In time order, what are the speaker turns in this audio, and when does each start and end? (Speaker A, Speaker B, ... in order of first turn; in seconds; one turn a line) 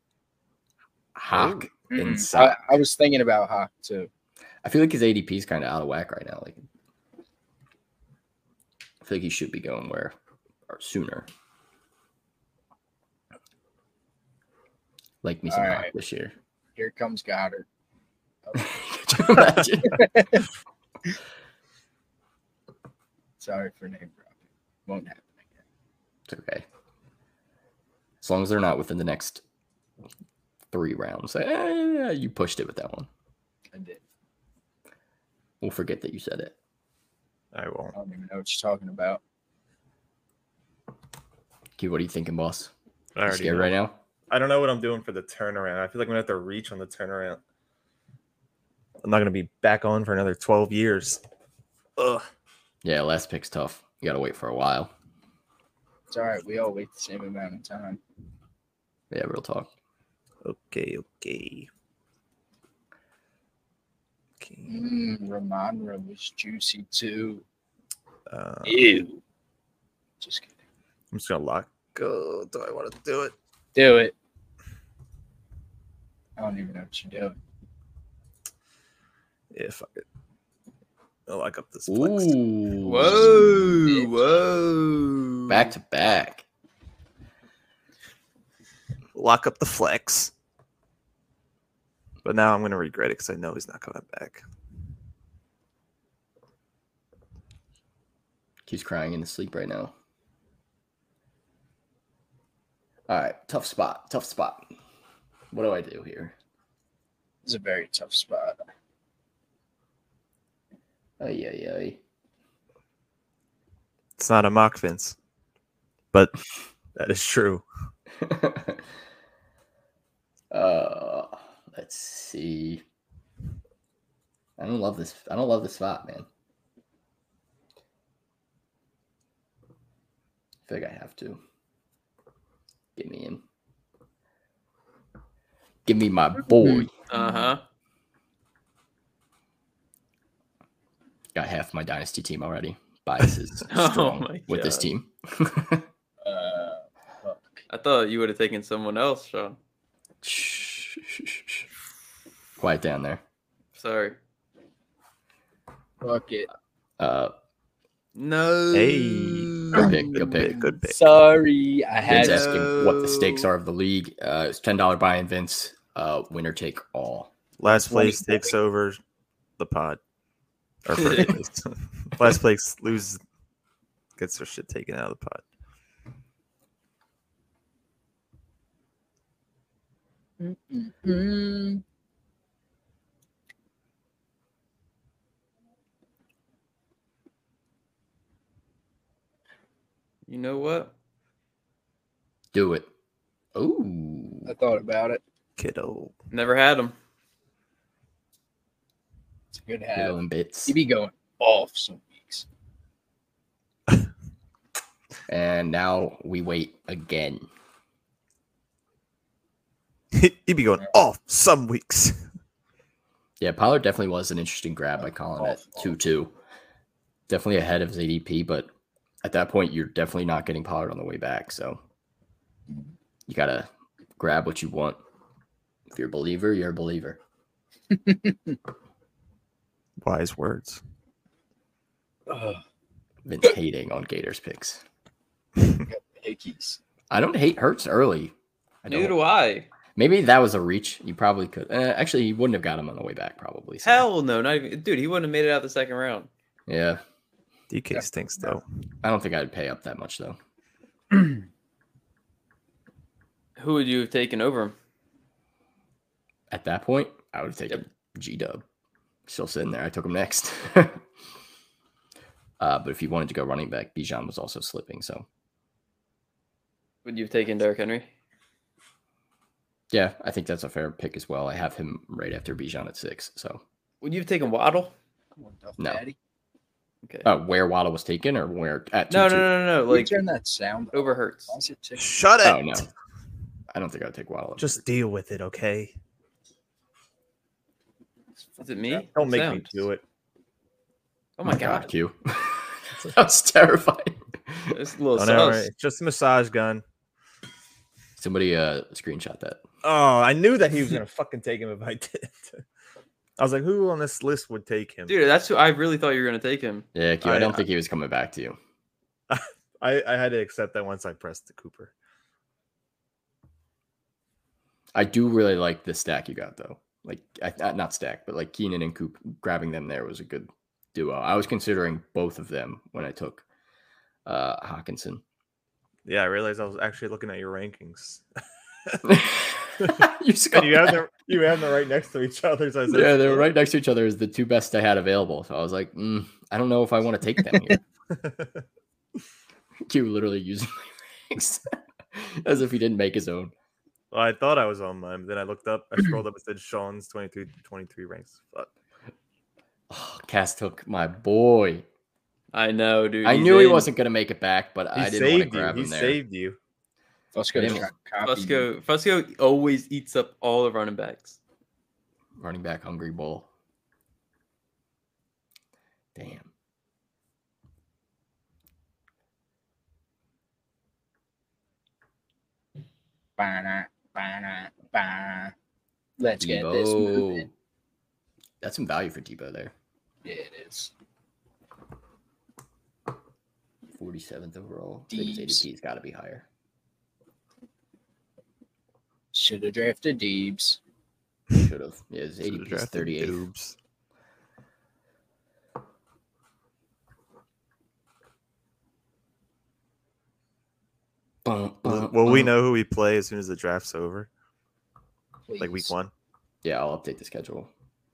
Speaker A: 1.1-2.6
Speaker B: 1.3-1.7
Speaker C: 1.9-4.1
Speaker A: 4.6-6.6
Speaker A: 9.0-10.1
Speaker A: 10.7-11.3
Speaker A: 15.2-16.3
Speaker C: 15.5-15.9
Speaker C: 16.8-17.6
Speaker C: 18.4-20.4
Speaker A: 18.5-20.1
Speaker C: 23.4-25.5
Speaker A: 26.3-26.6
Speaker A: 28.2-29.4
Speaker A: 30.7-33.1
Speaker C: 33.7-34.0
Speaker A: 35.6-36.5
Speaker B: 37.5-37.9
Speaker C: 37.9-39.2
Speaker A: 41.8-42.7
Speaker B: 43.1-43.7
Speaker A: 43.3-44.0
Speaker B: 44.3-47.4
Speaker B: 49.0-51.2
Speaker B: 52.0-52.3
Speaker A: 52.8-54.9
Speaker C: 56.1-58.0
Speaker A: 59.1-59.7
Speaker B: 60.4-61.7
Speaker B: 64.4-64.8
Speaker C: 64.7-67.4
Speaker B: 68.3-68.8
Speaker C: 68.6-69.2
Speaker C: 70.2-70.5
Speaker B: 71.1-73.3
Speaker C: 73.7-74.1
Speaker C: 76.4-77.4
Speaker B: 79.5-80.0
Speaker B: 81.3-82.3
Speaker A: 81.9-83.8
Speaker D: 82.8-85.7
Speaker A: 85.5-86.4
Speaker B: 89.1-90.3
Speaker B: 92.2-94.4
Speaker A: 98.7-99.9
Speaker A: 103.1-104.7
Speaker A: 105.5-106.3
Speaker C: 107.4-108.6
Speaker A: 111.2-112.0
Speaker B: 114.2-115.2
Speaker B: 116.9-117.6
Speaker A: 118.2-118.8
Speaker A: 120.5-122.8
Speaker A: 124.6-126.3
Speaker A: 130.7-131.4
Speaker A: 132.9-133.4
Speaker A: 135.8-136.9
Speaker C: 136.5-137.5
Speaker D: 137.1-137.6
Speaker A: 141.3-145.9
Speaker D: 143.7-144.9
Speaker C: 146.2-147.6
Speaker D: 147.7-149.6
Speaker A: 150.2-151.7
Speaker A: 152.6-153.2
Speaker D: 153.8-154.2
Speaker C: 156.0-156.5
Speaker A: 157.0-157.3
Speaker D: 158.1-160.1
Speaker B: 158.7-161.2
Speaker A: 159.7-160.6
Speaker C: 159.8-162.7
Speaker A: 162.1-167.3
Speaker D: 162.1-163.5
Speaker B: 167.6-169.0
Speaker C: 167.7-168.5
Speaker B: 169.6-170.0
Speaker B: 170.8-173.2
Speaker D: 171.0-171.3
Speaker B: 174.2-175.4
Speaker C: 180.4-181.8
Speaker D: 190.3-190.9
Speaker A: 192.5-192.9
Speaker A: 193.5-194.5
Speaker C: 194.4-195.2
Speaker B: 195.6-196.1
Speaker D: 196.3-196.9
Speaker C: 199.5-202.4
Speaker A: 199.9-200.8
Speaker A: 205.3-207.5
Speaker B: 210.1-212.3
Speaker A: 213.4-216.3
Speaker C: 215.4-215.9
Speaker A: 217.3-218.7
Speaker A: 219.2-221.8
Speaker A: 223.3-225.0
Speaker A: 225.9-227.2
Speaker C: 227.9-228.6
Speaker B: 230.0-230.8
Speaker C: 232.3-232.6
Speaker A: 233.2-234.8
Speaker C: 235.8-236.8
Speaker A: 237.1-239.2
Speaker D: 238.9-239.7
Speaker A: 239.9-244.1
Speaker D: 243.8-246.3
Speaker A: 246.7-247.0
Speaker B: 247.7-248.6
Speaker C: 247.9-248.5
Speaker A: 249.0-250.4
Speaker D: 253.6-254.7
Speaker A: 256.5-258.6
Speaker A: 259.3-261.0
Speaker A: 262.6-265.2
Speaker D: 267.0-268.1
Speaker A: 269.9-273.6
Speaker D: 274.0-274.9
Speaker C: 275.4-276.1
Speaker A: 275.8-276.0
Speaker A: 277.2-279.5
Speaker D: 279.1-280.1
Speaker C: 279.9-282.3
Speaker D: 280.9-281.6
Speaker B: 282.0-282.9
Speaker A: 282.4-282.9
Speaker A: 283.7-284.8
Speaker B: 284.6-285.9
Speaker C: 288.5-289.1
Speaker D: 288.6-289.9
Speaker B: 289.1-290.0
Speaker D: 291.4-291.9
Speaker A: 291.4-294.8
Speaker D: 294.7-295.7
Speaker B: 295.1-296.8
Speaker A: 298.2-299.6
Speaker B: 299.8-302.6
Speaker B: 303.4-305.2
Speaker D: 305.1-306.9
Speaker A: 306.9-308.6
Speaker B: 307.2-307.6
Speaker B: 309.3-311.9
Speaker A: 314.9-323.4
Speaker A: 324.2-325.2
Speaker B: 326.1-328.2
Speaker A: 329.0-331.0
Speaker B: 329.8-333.5
Speaker A: 332.9-337.8
Speaker B: 338.1-338.6
Speaker A: 339.9-343.5
Speaker B: 344.1-348.7
Speaker A: 349.9-351.8
Speaker D: 352.5-353.9
Speaker A: 353.2-356.2
Speaker B: 354.9-356.6
Speaker C: 357.3-358.7
Speaker A: 357.5-357.9
Speaker D: 358.2-361.4
Speaker A: 362.4-363.5
Speaker A: 366.1-366.5
Speaker C: 373.4-375.5
Speaker C: 376.2-377.4
Speaker A: 376.4-377.5
Speaker A: 378.6-379.7
Speaker C: 380.2-380.9
Speaker A: 383.9-386.4
Speaker C: 385.1-385.6
Speaker C: 389.3-390.8
Speaker A: 391.5-393.4
Speaker B: 392.4-393.8
Speaker A: 401.4-402.5
Speaker B: 401.8-404.3
Speaker C: 405.5-405.9
Speaker B: 405.6-406.1
Speaker A: 406.6-407.7